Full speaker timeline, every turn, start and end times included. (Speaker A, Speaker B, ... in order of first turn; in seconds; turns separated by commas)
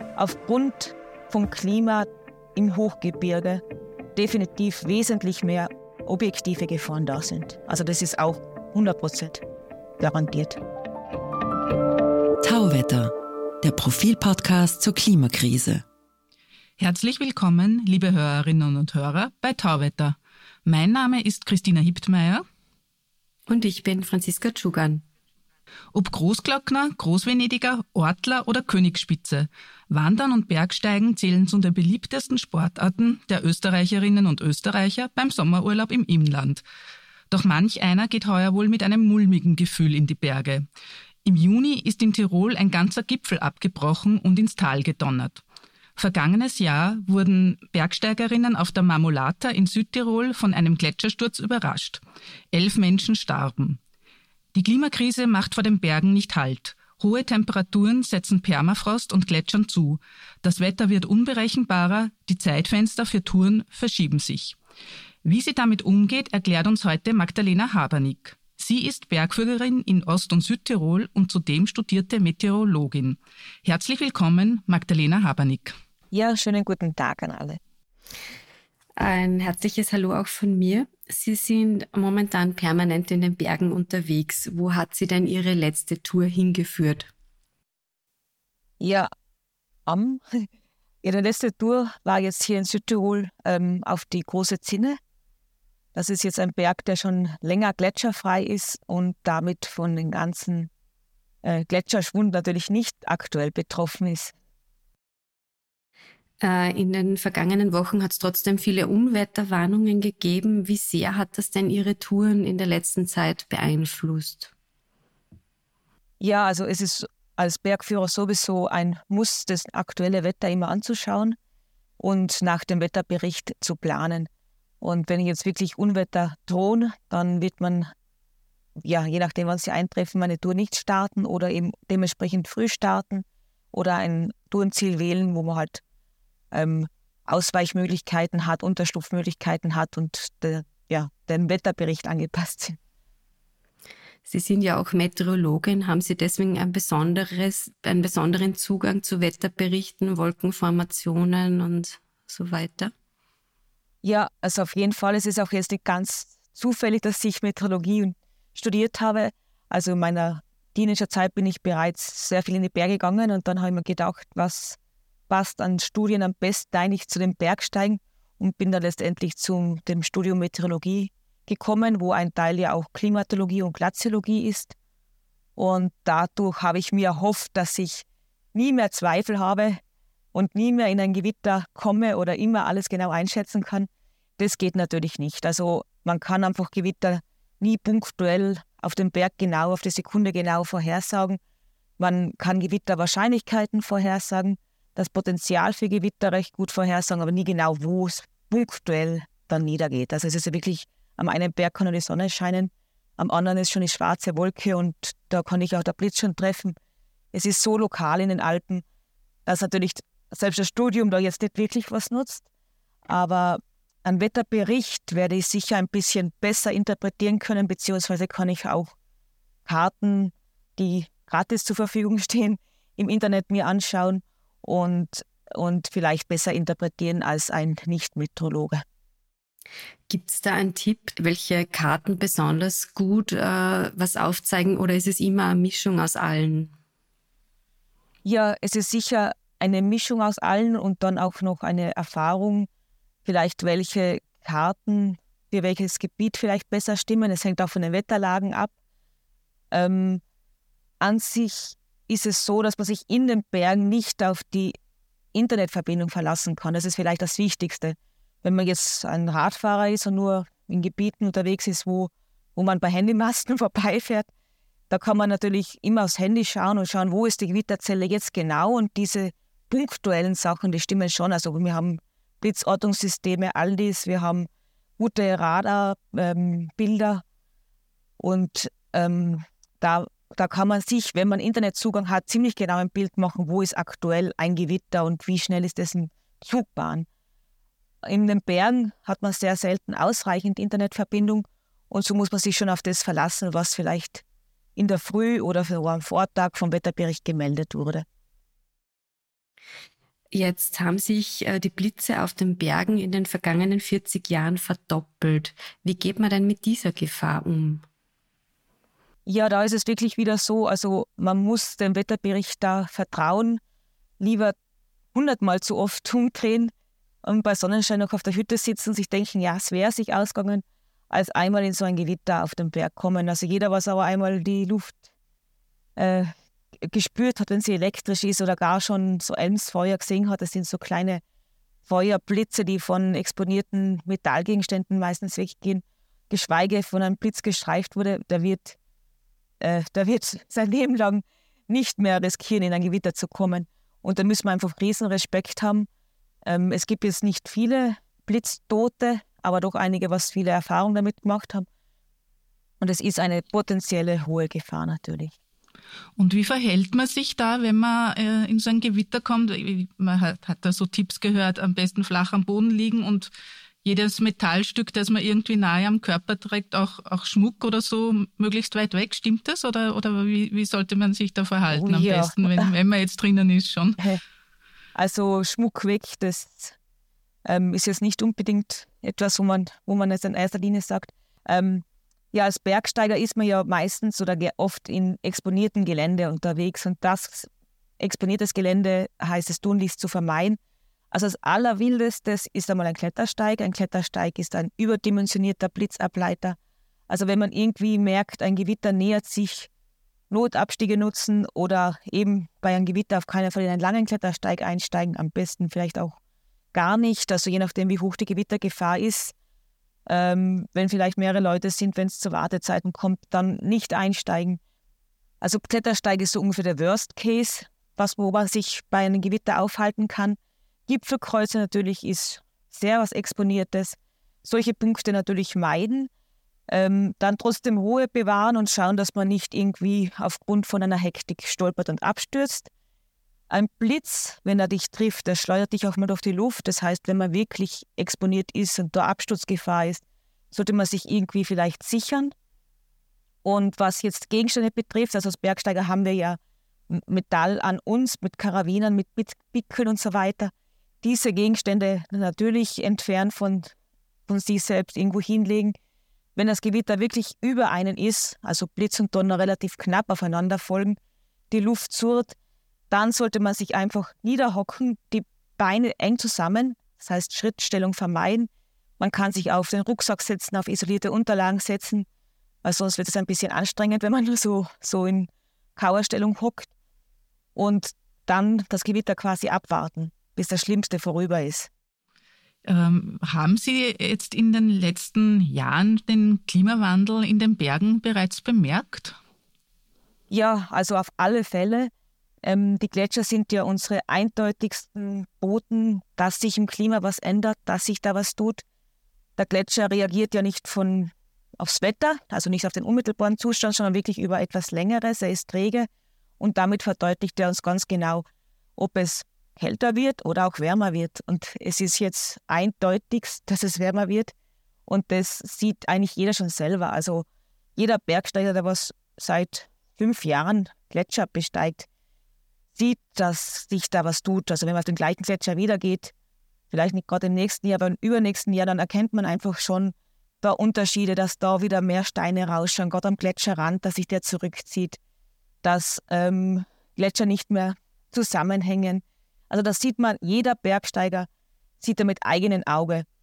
Speaker A: 0.2-3.6, Speaker A: 4.2-9.4, Speaker A: 10.0-10.6, Speaker B: 12.4-15.8, Speaker C: 16.8-22.4, Speaker D: 23.5-25.1, Speaker C: 25.9-36.6, Speaker C: 37.3-40.6, Speaker C: 41.2-45.4, Speaker C: 46.0-53.8, Speaker C: 54.5-64.6, Speaker C: 65.2-75.8, Speaker A: 76.1-77.6, Speaker D: 79.0-87.1, Speaker A: 88.8-89.1, Speaker A: 89.9-90.5, Speaker A: 91.0-95.0, Speaker A: 95.9-100.7, Speaker A: 101.4-104.3, Speaker D: 106.4-114.5, Speaker A: 116.2-121.4, Speaker A: 122.0-124.3, Speaker A: 124.8-127.9, Speaker A: 128.8-135.8, Speaker A: 136.5-142.8, Speaker D: 144.3-152.9, Speaker A: 154.0-164.8, Speaker A: 165.3-174.7, Speaker A: 175.6-179.8, Speaker A: 180.3-191.4, Speaker A: 192.0-206.8, Speaker A: 207.3-208.8, Speaker A: 209.5-212.4, Speaker A: 213.1-218.9, Speaker A: 219.7-228.8, Speaker D: 230.1-236.7, Speaker A: 238.2-242.7, Speaker A: 243.2-248.7, Speaker A: 249.7-250.2, Speaker A: 251.0-254.8, Speaker A: 255.3-264.3, Speaker A: 264.9-274.5, Speaker A: 275.0-277.2, Speaker A: 278.2-287.1, Speaker A: 288.0-294.2, Speaker A: 294.8-298.1, Speaker D: 300.3-307.9, Speaker A: 309.3-313.6, Speaker A: 314.2-314.6, Speaker A: 315.1-316.7, Speaker A: 317.2-325.0, Speaker A: 326.0-331.2, Speaker A: 331.9-338.8, Speaker A: 339.6-345.9, Speaker A: 346.5-351.7, Speaker A: 352.8-355.3, Speaker C: 356.2-363.3, Speaker C: 363.8-374.0, Speaker A: 371.7-372.7, Speaker A: 374.9-376.8, Speaker A: 377.4-387.5, Speaker A: 388.0-390.6, Speaker A: 391.1-396.6, Speaker A: 397.1-399.7, Speaker A: 400.3-406.2, Speaker A: 406.7-409.3, Speaker A: 410.1-414.6, Speaker A: 415.4-426.1, Speaker A: 426.7-432.7, Speaker A: 433.5-442.3, Speaker A: 443.4-446.4, Speaker A: 446.9-453.7, Speaker A: 454.3-455.8, Speaker A: 456.4-461.0, Speaker A: 461.5-462.4, Speaker A: 462.9-472.1, Speaker A: 472.6-476.7, Speaker A: 477.6-481.7, Speaker C: 482.6-489.2, Speaker A: 490.3-491.9, Speaker A: 492.4-498.6, Speaker A: 499.4-505.9, Speaker A: 506.4-508.2, Speaker A: 508.8-514.3, Speaker A: 514.9-521.9, Speaker A: 522.8-526.1, Speaker A: 526.7-535.0, Speaker A: 535.6-541.3, Speaker A: 541.8-543.1